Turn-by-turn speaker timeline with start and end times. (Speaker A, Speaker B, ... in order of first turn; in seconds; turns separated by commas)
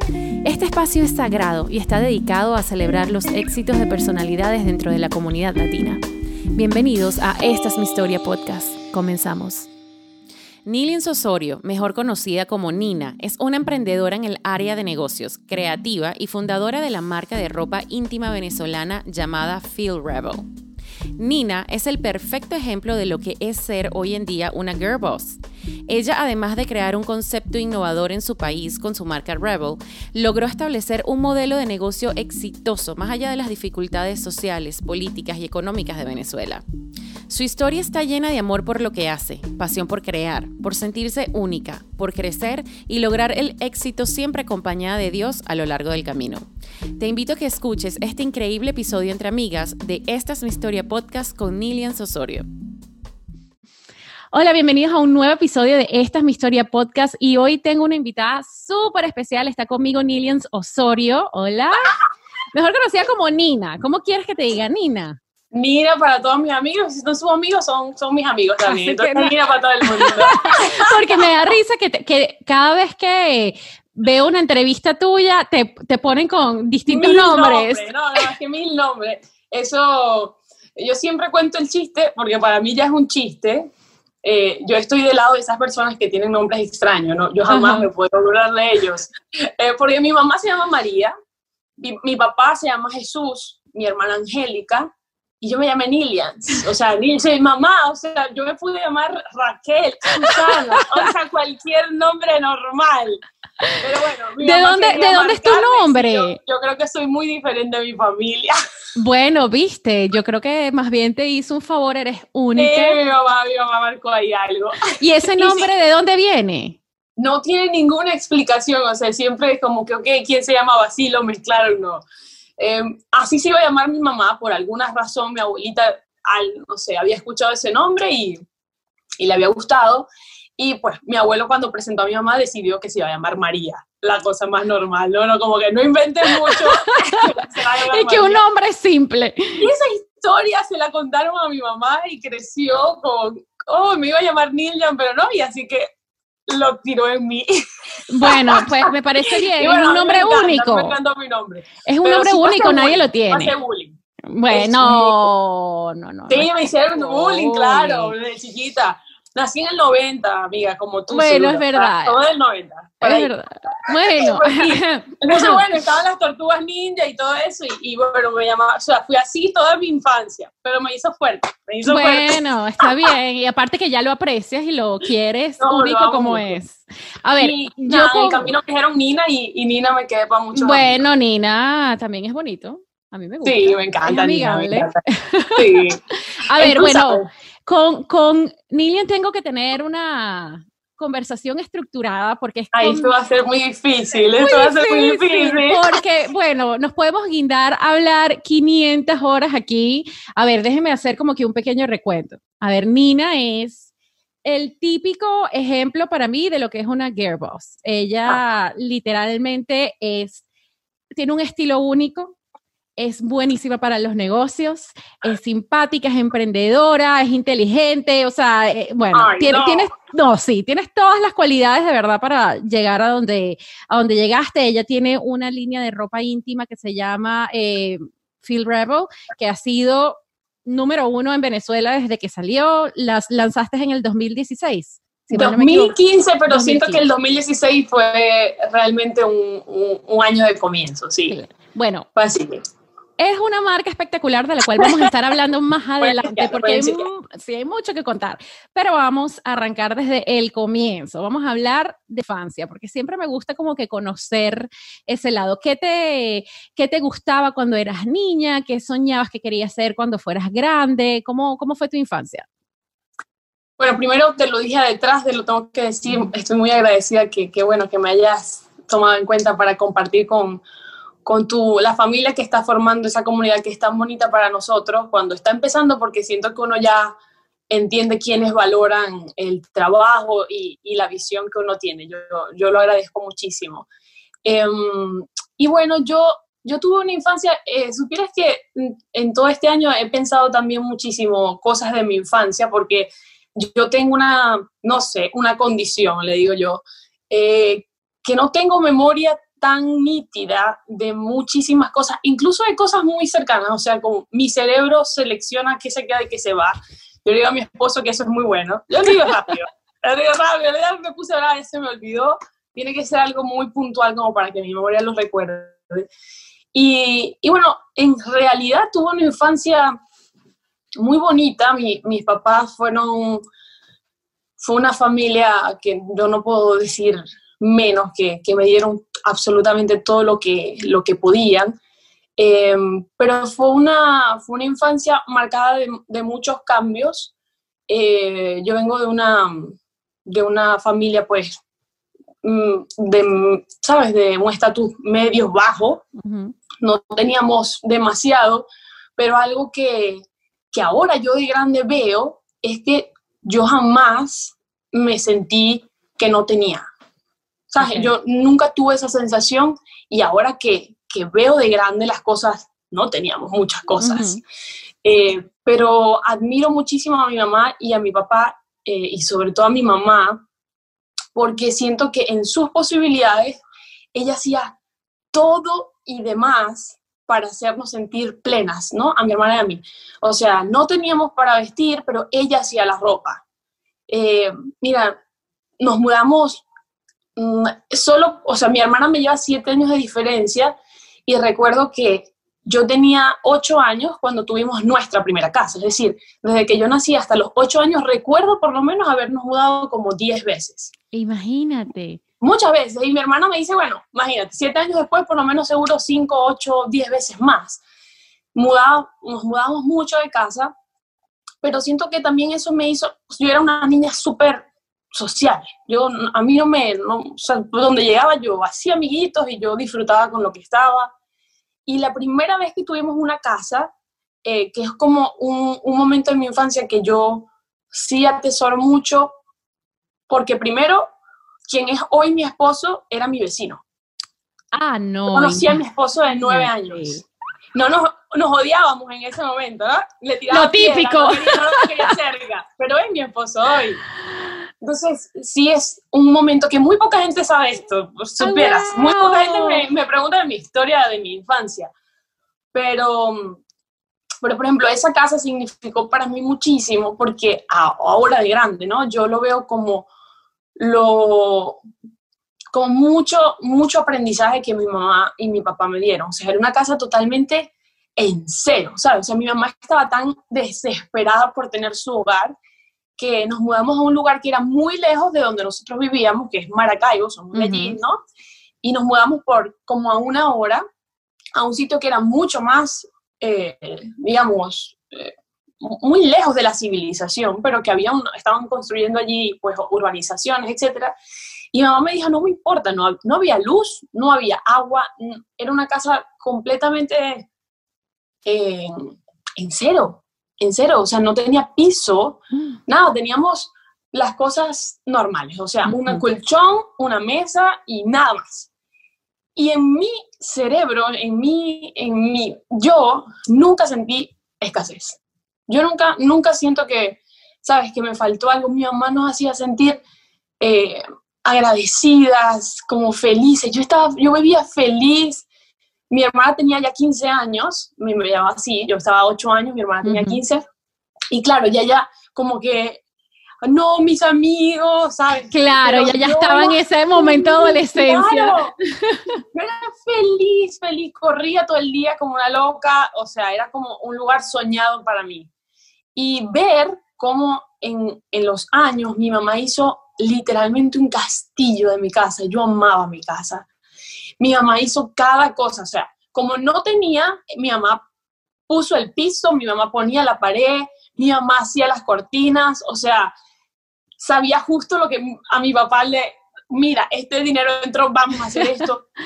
Speaker A: 0.4-6.0, Speaker A: 6.5-9.7, Speaker A: 10.7-20.4, Speaker A: 21.2-36.6, Speaker A: 37.3-46.5, Speaker A: 47.0-52.5, Speaker A: 54.3-62.0, Speaker A: 62.5-65.2, Speaker B: 65.5-70.7, Speaker A: 68.6-77.9, Speaker B: 76.9-83.7, Speaker B: 84.2-91.1, Speaker A: 87.5-87.9, Speaker B: 91.8-94.9, Speaker B: 95.4-103.2, Speaker A: 100.2-101.0, Speaker B: 103.8-108.5, Speaker A: 104.4-106.4, Speaker A: 109.0-113.0, Speaker B: 112.5-115.7, Speaker A: 115.0-116.8, Speaker B: 117.2-122.0, Speaker B: 122.6-128.4, Speaker B: 129.2-138.4, Speaker A: 136.5-137.3, Speaker A: 137.9-139.7, Speaker B: 139.6-145.9, Speaker B: 146.5-147.6, Speaker A: 148.1-151.0, Speaker B: 148.2-154.0, Speaker A: 151.8-153.6, Speaker A: 154.3-158.1, Speaker B: 154.5-155.3, Speaker B: 156.3-163.3, Speaker A: 161.1-162.2, Speaker A: 163.0-165.6, Speaker B: 164.0-173.1, Speaker A: 171.8-178.5, Speaker B: 175.6-176.6, Speaker B: 177.4-181.0, Speaker A: 180.5-193.1, Speaker B: 183.4-184.9, Speaker B: 185.6-186.0, Speaker B: 186.6-187.3, Speaker B: 192.7-195.8, Speaker A: 194.4-203.9, Speaker A: 204.4-210.4, Speaker A: 211.1-212.3, Speaker A: 213.0-235.9, Speaker B: 219.1-219.9, Speaker B: 235.3-241.3, Speaker A: 236.5-237.0, Speaker A: 241.3-242.1, Speaker B: 242.2-242.6, Speaker A: 243.2-262.4, Speaker B: 246.0-247.0, Speaker B: 263.8-270.6, Speaker B: 271.2-277.1, Speaker B: 277.7-283.9, Speaker B: 284.4-306.7, Speaker B: 307.2-316.1, Speaker B: 316.7-319.9, Speaker B: 321.0-323.4, Speaker B: 324.6-331.8, Speaker B: 332.4-337.3, Speaker B: 337.9-341.5, Speaker B: 342.4-346.0, Speaker A: 346.2-346.5, Speaker B: 346.8-356.9, Speaker B: 357.7-364.4, Speaker A: 357.8-358.1, Speaker A: 364.0-364.4, Speaker B: 365.0-370.4, Speaker B: 371.3-373.6, Speaker B: 374.1-374.8, Speaker B: 375.3-383.4, Speaker B: 384.1-385.1, Speaker B: 385.8-386.6, Speaker B: 387.4-400.9, Speaker A: 401.1-402.2, Speaker B: 402.4-407.8, Speaker B: 408.5-410.7, Speaker B: 411.6-421.1, Speaker B: 421.9-423.9, Speaker B: 424.4-429.3, Speaker B: 430.3-431.1, Speaker B: 431.6-433.8, Speaker A: 434.7-435.8, Speaker B: 435.3-437.2, Speaker A: 436.4-437.2, Speaker B: 437.7-444.0, Speaker A: 440.5-442.1, Speaker B: 444.8-451.9, Speaker A: 448.4-449.8, Speaker B: 452.7-453.6, Speaker B: 454.4-460.1, Speaker B: 460.8-461.8, Speaker B: 462.7-472.6, Speaker B: 473.2-478.2, Speaker A: 477.5-478.0, Speaker B: 478.8-480.8, Speaker B: 481.5-491.1, Speaker B: 491.7-497.5, Speaker B: 498.4-508.7, Speaker A: 505.9-506.2, Speaker B: 509.6-520.0, Speaker B: 520.6-525.5, Speaker B: 526.1-530.6, Speaker A: 530.0-530.4, Speaker B: 531.3-533.0, Speaker B: 533.6-538.7, Speaker A: 535.5-539.3, Speaker B: 539.5-545.5, Speaker B: 546.1-553.7, Speaker B: 554.4-558.0, Speaker B: 558.7-563.3, Speaker B: 564.2-569.0